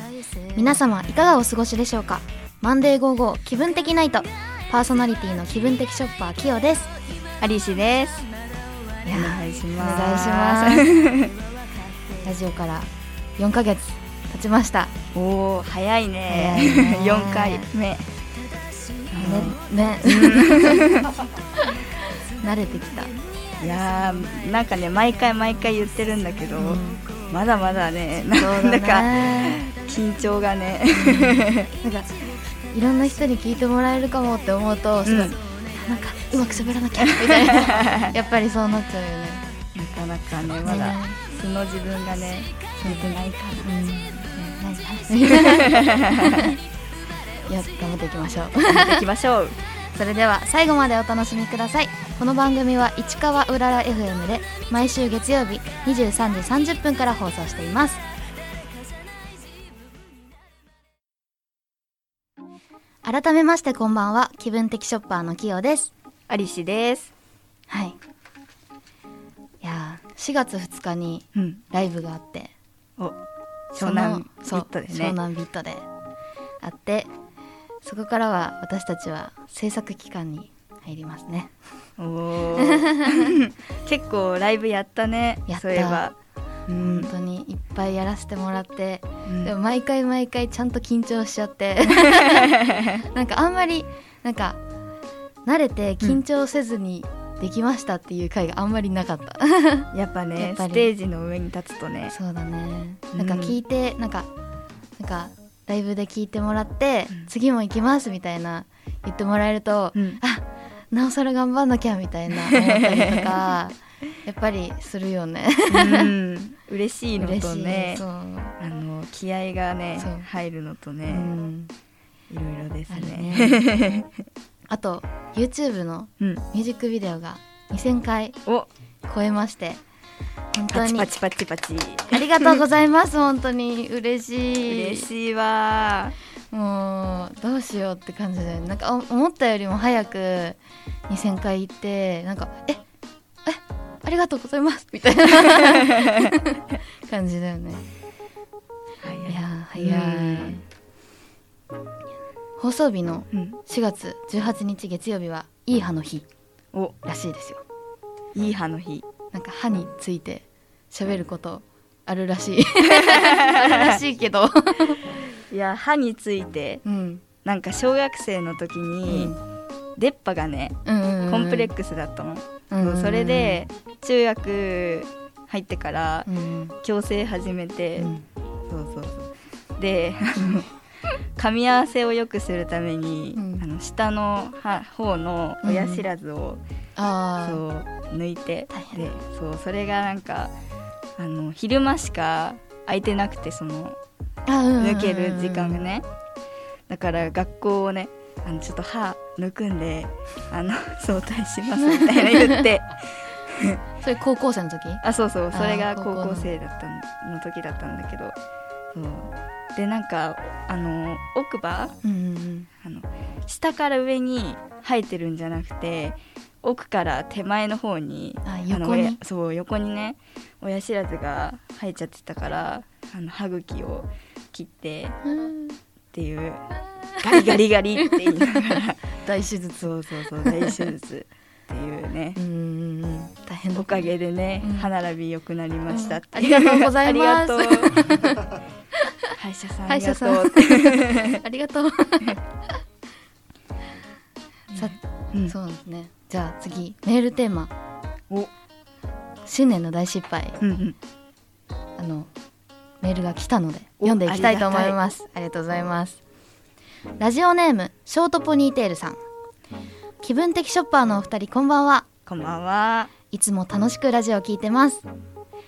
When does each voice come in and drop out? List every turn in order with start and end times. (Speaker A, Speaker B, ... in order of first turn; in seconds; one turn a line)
Speaker A: 0.5-6.9
Speaker B: 7.4-8.3
Speaker A: 9.0-10.8
Speaker B: 9.1-11.3
Speaker A: 12.2-14.9
Speaker B: 15.1-18.1
Speaker A: 16.3-17.7
Speaker B: 19.1-21.2
Speaker A: 19.2-21.0
Speaker A: 21.5-23.1
Speaker B: 23.6-31.7
Speaker A: 26.6-27.1
Speaker A: 28.4-29.6
Speaker A: 30.9-32.1
Speaker A: 32.7-39.4
Speaker B: 35.0-35.3
Speaker B: 37.1-38.1
Speaker B: 39.7-43.8
Speaker A: 40.6-41.2
Speaker A: 42.8-46.6
Speaker B: 45.2-46.5
Speaker A: 47.5-49.1
Speaker B: 48.6-49.6
Speaker A: 49.9-58.0
Speaker A: 63.0-65.9
Speaker B: 66.3-67.1
Speaker A: 67.7-68.0
Speaker A: 69.6-72.5
Speaker B: 71.3-71.6
Speaker B: 73.7-75.1
Speaker A: 73.7-75.8
Speaker A: 76.6-77.1
Speaker A: 77.8-81.5
Speaker B: 82.0-86.1
Speaker A: 82.5-83.4
Speaker A: 85.5-86.0
Speaker B: 86.7-87.1
Speaker A: 86.8-92.5
Speaker B: 89.2-89.5
Speaker B: 92.0-93.0
Speaker A: 93.1-94.6
Speaker A: 95.5-100.9
Speaker B: 99.9-102.1
Speaker A: 102.1-104.3
Speaker B: 103.2-103.5
Speaker A: 105.0-116.1
Speaker B: 112.3-113.2
Speaker B: 115.7-118.0
Speaker A: 117.2-118.5
Speaker B: 118.6-121.3
Speaker A: 120.0-120.3
Speaker A: 121.1-121.7
Speaker B: 122.3-124.1
Speaker A: 122.9-123.6
Speaker A: 124.7-128.3
Speaker A: 129.1-129.8
Speaker A: 130.5-131.1
Speaker B: 130.7-132.6
Speaker A: 132.1-135.1
Speaker B: 134.7-136.1
Speaker A: 136.5-142.8
Speaker A: 143.4-147.8
Speaker B: 145.9-146.2
Speaker B: 149.0-150.6
Speaker A: 149.2-150.6
Speaker A: 152.6-156.3
Speaker B: 153.3-153.6
Speaker A: 157.0-157.6
Speaker B: 158.3-159.1
Speaker A: 159.3-165.1
Speaker B: 163.0-164.0
Speaker B: 165.5-166.8
Speaker A: 166.8-167.2
Speaker B: 167.4-169.3
Speaker A: 169.1-169.4
Speaker B: 170.0-176.3
Speaker A: 170.8-171.7
Speaker A: 172.7-173.6
Speaker A: 176.3-176.7
Speaker B: 176.8-178.1
Speaker A: 178.0-178.2
Speaker B: 178.7-180.7
Speaker A: 180.3-180.7
Speaker B: 181.3-186.6
Speaker A: 183.3-183.6
Speaker A: 185.6-186.1
Speaker A: 187.0-187.6
Speaker B: 187.4-190.5
Speaker A: 188.7-189.1
Speaker B: 191.2-194.0
Speaker A: 194.4-195.9
Speaker B: 194.8-196.0
Speaker B: 196.9-203.8
Speaker A: 201.8-202.7
Speaker A: 204.0-205.0
Speaker B: 205.0-208.3
Speaker A: 205.5-206.5
Speaker B: 208.9-211.9
Speaker A: 212.0-212.7
Speaker B: 212.8-225.2
Speaker A: 218.4-219.2
Speaker A: 225.2-225.8
Speaker B: 226.1-226.6
Speaker B: 227.2-229.0
Speaker A: 229.2-230.9
Speaker B: 229.8-232.4
Speaker A: 232.3-234.1
Speaker B: 233.7-238.1
Speaker A: 234.6-234.9
Speaker A: 235.9-238.5
Speaker B: 239.4-241.4
Speaker A: 239.9-242.4
Speaker B: 244.7-245.5
Speaker A: 244.7-247.7
Speaker A: 249.4-250.6
Speaker B: 250.6-251.0
Speaker A: 252.0-252.3
Speaker A: 253.0-256.2
Speaker B: 254.0-255.0
Speaker A: 257.2-259.2
Speaker A: 260.2-262.1
Speaker B: 262.2-263.1
Speaker A: 263.3-265.0